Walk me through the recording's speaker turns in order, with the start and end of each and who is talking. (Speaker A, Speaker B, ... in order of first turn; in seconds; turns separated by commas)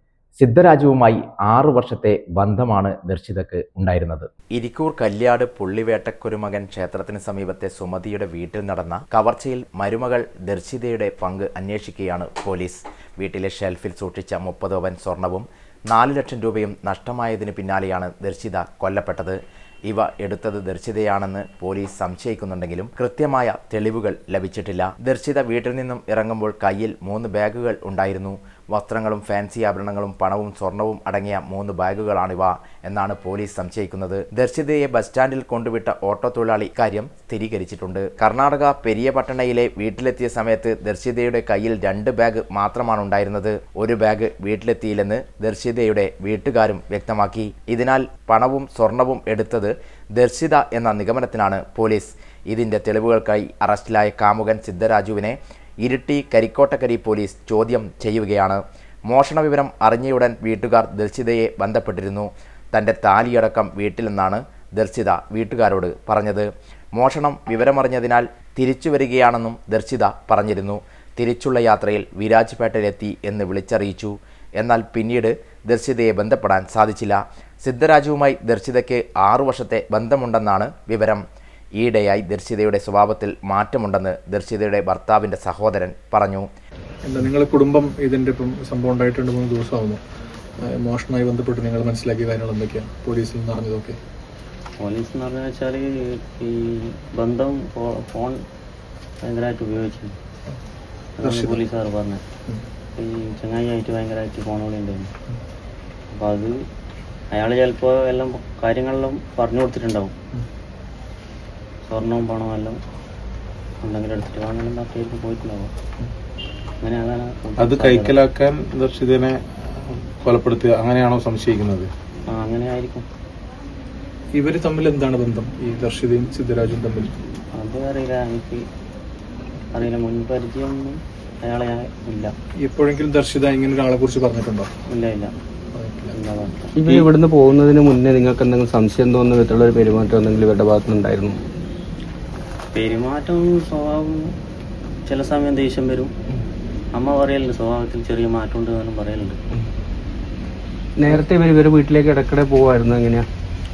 Speaker A: 0.4-81.2, Speaker A: 81.8-86.5, Speaker B: 87.0-90.0, Speaker B: 90.6-94.0, Speaker C: 94.8-98.4, Speaker C: 99.2-100.2, Speaker C: 101.2-102.2, Speaker B: 101.2-101.6, Speaker C: 103.0-105.1, Speaker C: 106.1-106.6, Speaker C: 107.3-110.1, Speaker C: 111.8-112.8, Speaker C: 113.8-115.7, Speaker C: 116.8-118.2, Speaker D: 117.6-121.9, Speaker C: 122.3-123.0, Speaker B: 124.3-127.1, Speaker C: 127.5-128.6, Speaker C: 129.7-132.3, Speaker B: 132.6-134.7, Speaker C: 134.9-135.3, Speaker B: 135.7-136.1, Speaker C: 136.1-136.7, Speaker E: 136.8-141.4, Speaker C: 142.7-144.3, Speaker C: 145.1-146.1, Speaker C: 146.9-149.4, Speaker E: 151.0-153.2